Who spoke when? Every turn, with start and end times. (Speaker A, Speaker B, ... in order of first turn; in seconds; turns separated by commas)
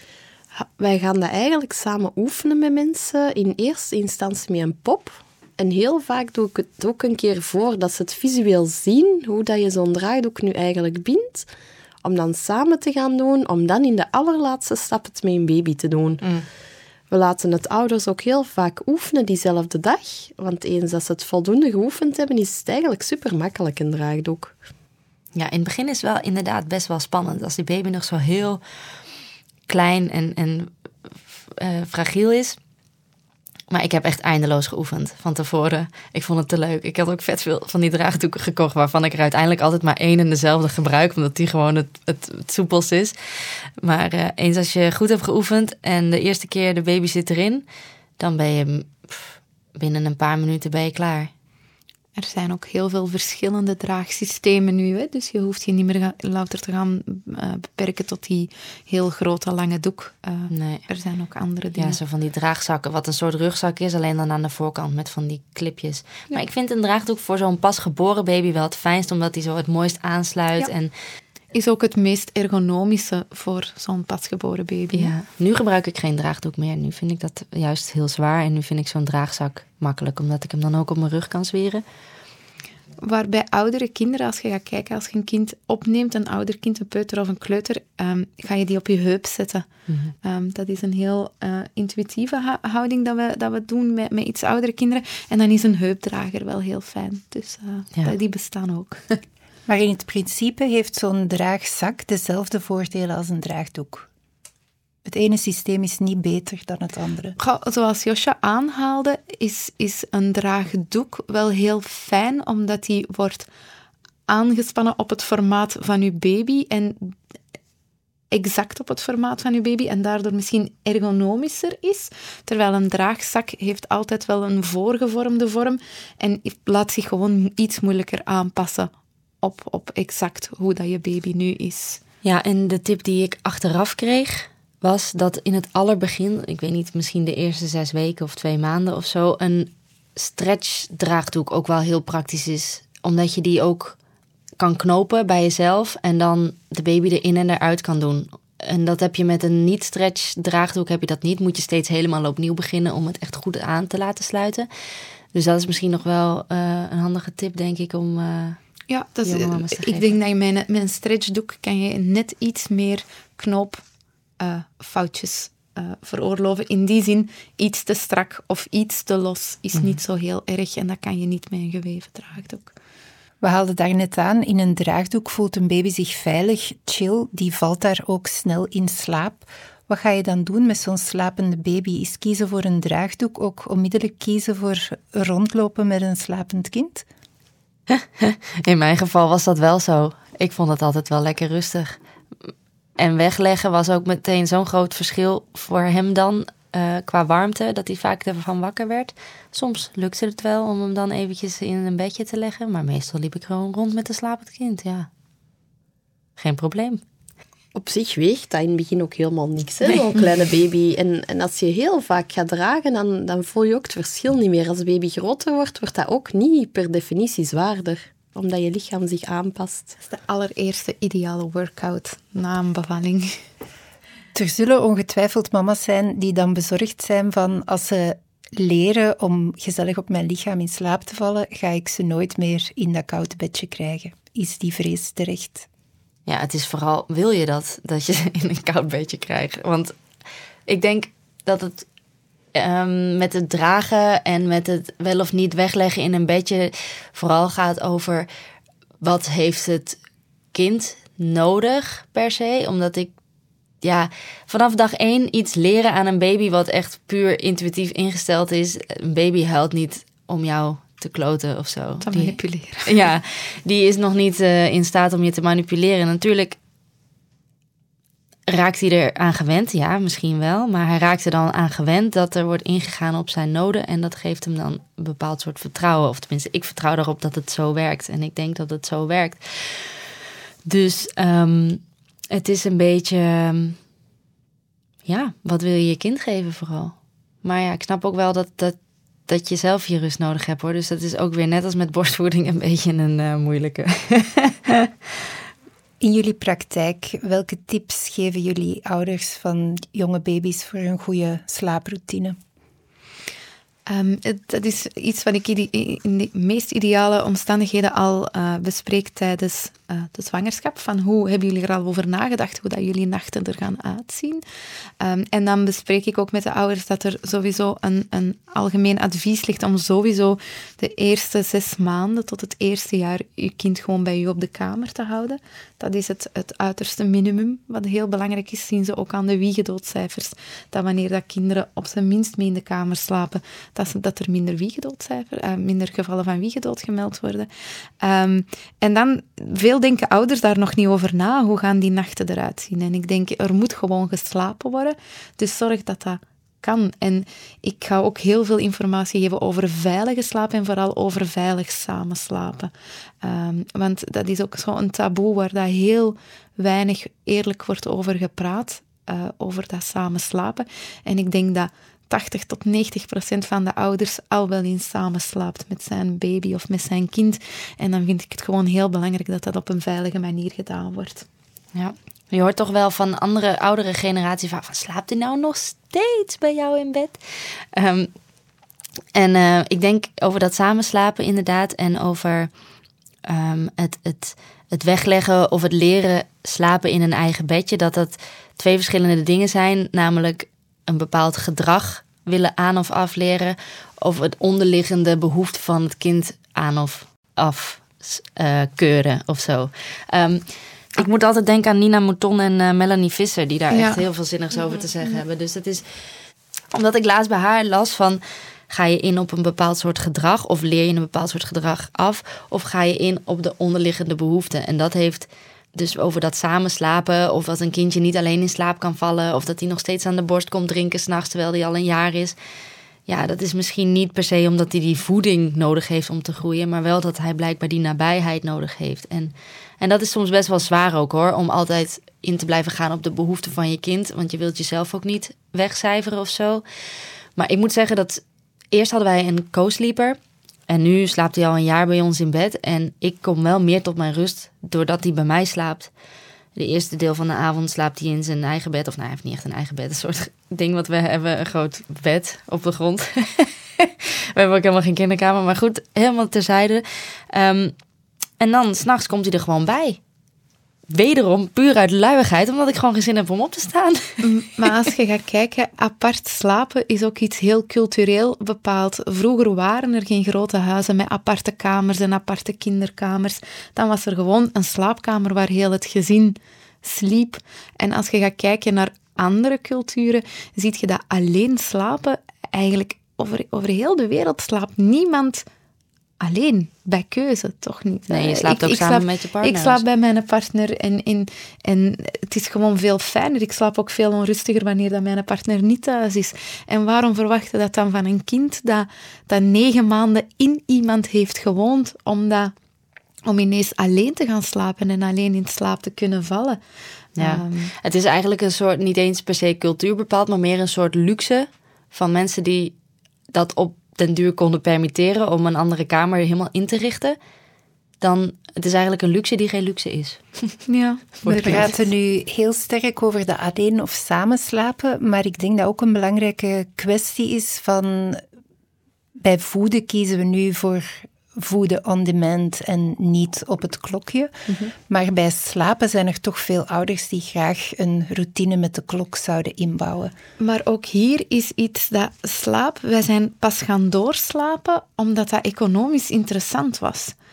Speaker A: 0.6-11.5, Speaker A: 12.0-16.2, Speaker A: 17.1-24.6, Speaker B: 25.4-28.6, Speaker B: 29.7-30.7, Speaker B: 31.6-32.6, Speaker B: 33.7-43.1, Speaker B: 43.8-47.6, Speaker B: 48.2-49.1, Speaker B: 49.8-51.3, Speaker C: 52.2-62.0, Speaker B: 60.5-60.9, Speaker B: 61.8-70.9, Speaker C: 71.5-75.1, Speaker B: 74.9-81.8, Speaker C: 83.0-89.7, Speaker B: 89.9-90.1, Speaker C: 90.2-99.2, Speaker D: 99.7-104.1, Speaker D: 105.1-107.4, Speaker C: 107.4-113.5, Speaker C: 114.3-117.1, Speaker C: 118.3-128.9, Speaker C: 129.4-132.0, Speaker B: 132.2-144.0, Speaker B: 144.6-154.7, Speaker B: 155.3-158.6, Speaker C: 158.9-163.8, Speaker B: 159.2-160.1, Speaker C: 164.4-172.8, Speaker D: 173.4-187.1, Speaker B: 187.9-192.0, Speaker B: 193.0-205.1, Speaker B: 206.4-207.0, Speaker A: 207.8-219.9, Speaker B: 209.9-210.2, Speaker C: 220.0-223.3, Speaker D: 224.3-235.7, Speaker B: 236.3-239.9, Speaker B: 240.7-241.9, Speaker B: 242.6-248.3, Speaker B: 249.0-250.0, Speaker B: 250.5-253.1, Speaker B: 253.8-266.6, Speaker C: 262.0-262.9, Speaker B: 268.5-279.9, Speaker B: 280.7-283.8, Speaker B: 285.1-288.8, Speaker B: 289.3-294.9, Speaker D: 296.0-302.4, Speaker C: 303.9-314.4, Speaker C: 315.0-337.5, Speaker C: 338.0-352.7, Speaker C: 353.2-371.3, Speaker B: 371.7-377.2, Speaker B: 377.7-378.1, Speaker B: 379.1-382.5, Speaker B: 383.3-405.9, Speaker C: 403.7-404.1, Speaker B: 406.7-422.4, Speaker B: 423.1-436.6, Speaker B: 437.4-440.2, Speaker B: 440.7-445.9, Speaker B: 446.6-457.7, Speaker B: 458.4-460.0, Speaker B: 460.9-464.2, Speaker C: 464.2-485.4, Speaker C: 486.2-502.5, Speaker B: 488.1-489.8, Speaker C: 503.3-506.6, Speaker B: 507.2-512.7, Speaker C: 507.2-507.7, Speaker B: 513.3-517.2, Speaker B: 518.0-520.5, Speaker C: 520.7-521.0, Speaker B: 521.2-521.7, Speaker D: 521.3-528.2, Speaker D: 529.2-534.3, Speaker D: 534.9-540.1, Speaker C: 540.4-547.1